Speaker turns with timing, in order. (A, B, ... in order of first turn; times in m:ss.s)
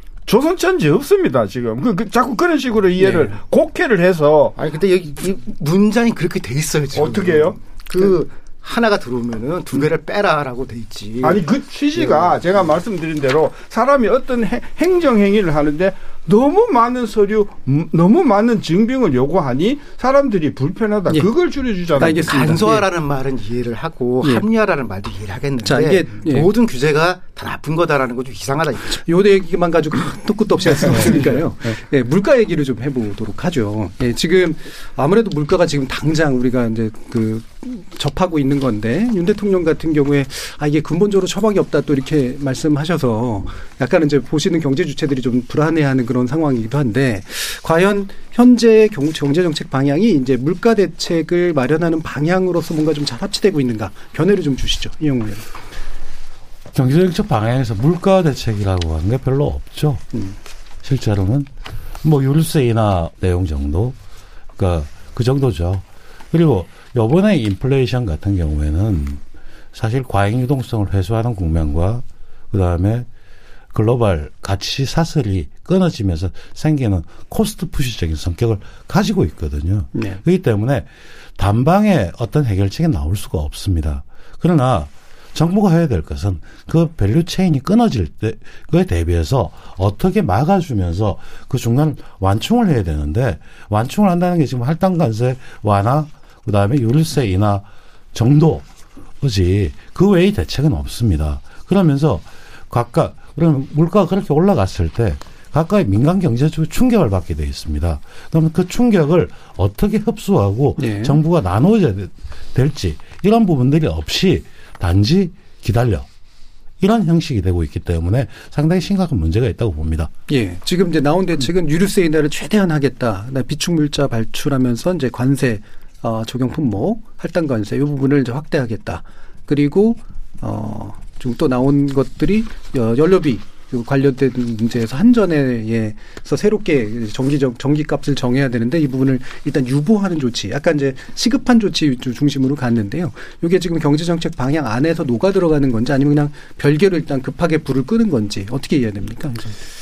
0:00.3-0:04.6 A
0:03.0-0:03.4 B
0:04.6-0:11.4 B
0:06.9-0:08.1 A
0:11.2-0:22.4 A
0:11.9-0:12.4 B
0:21.9-0:22.9 C
0:22.1-0:29.0 B
0:24.2-0:24.5 C
0:25.6-0:26.5 C
0:28.9-0:55.5 C
0:30.8-0:31.2 B
0:31.1-0:31.3 A
0:56.7-1:00.0 D
1:00.8-1:01.5 D
1:02.0-1:04.0 D
1:04.6-1:09.2 D
1:09.7-1:13.1 D
1:13.7-1:38.7 D
1:19.9-1:20.2 C
1:39.2-1:56.1 D
1:50.8-1:51.2 C
1:56.8-2:00.1 D
2:00.3-2:29.6 C